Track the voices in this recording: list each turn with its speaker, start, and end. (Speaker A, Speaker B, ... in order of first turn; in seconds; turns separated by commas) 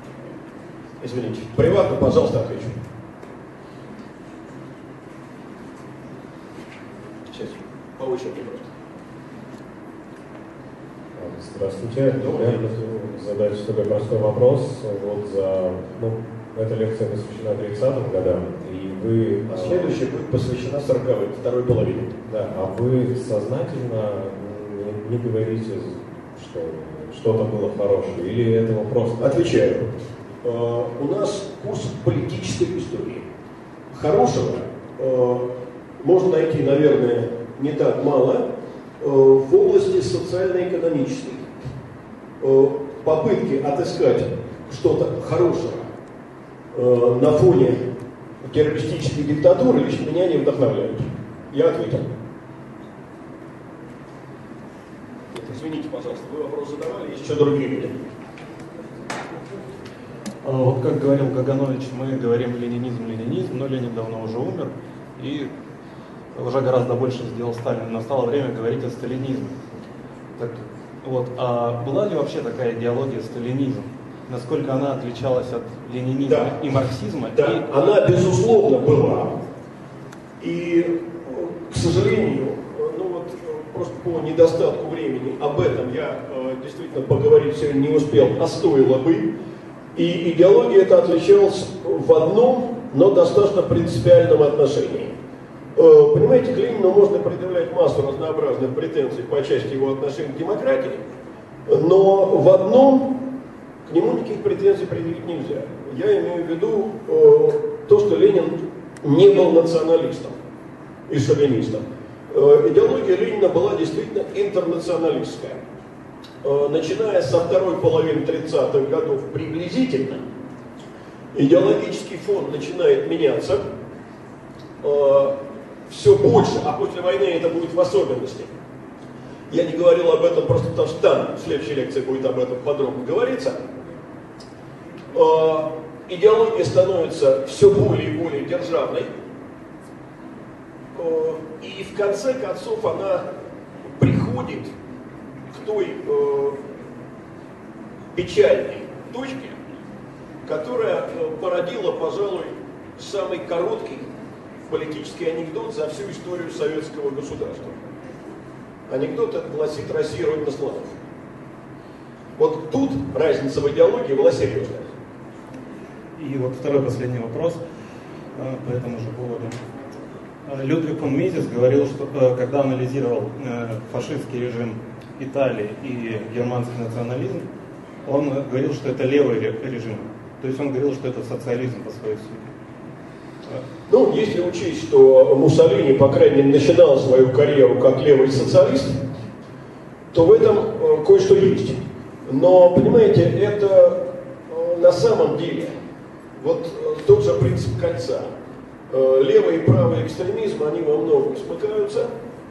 Speaker A: 1.0-2.8, Speaker A: 7.3-8.7, Speaker B: 11.2-20.0, Speaker A: 12.1-12.7, Speaker A: 19.5-22.2, Speaker B: 22.3-29.4, Speaker A: 29.2-29.9, Speaker A: 30.4-33.3, Speaker A: 33.9-38.5, Speaker A: 39.0-41.5, Speaker A: 42.4-45.9, Speaker A: 46.7-47.8, Speaker A: 48.4-52.1, Speaker A: 55.3-58.0, Speaker C: 60.4-65.5, Speaker C: 66.3-69.6, Speaker C: 70.4-77.7, Speaker A: 76.3-76.6, Speaker A: 77.3-79.4, Speaker A: 80.4-89.3, Speaker A: 90.0-95.2, Speaker A: 95.8-101.0, Speaker A: 101.7-103.3, Speaker A: 103.9-110.4, Speaker A: 111.1-115.6, Speaker A: 116.4-120.2, Speaker A: 121.3-123.7, Speaker A: 124.8-125.4, Speaker A: 125.9-128.5, Speaker A: 129.5-133.7, Speaker A: 135.1-139.1, Speaker A: 140.9-143.3, Speaker A: 143.8-144.7, Speaker A: 145.5-146.6, Speaker A: 148.1-149.6, Speaker A: 150.5-154.1, Speaker A: 154.7-157.8, Speaker A: 158.9-161.0, Speaker A: 162.4-164.9, Speaker C: 166.2-167.6, Speaker C: 168.3-169.6, Speaker C: 170.4-177.5, Speaker C: 178.0-182.5, Speaker A: 183.9-189.0, Speaker A: 190.1-195.8, Speaker A: 196.4-198.3, Speaker A: 198.9-202.1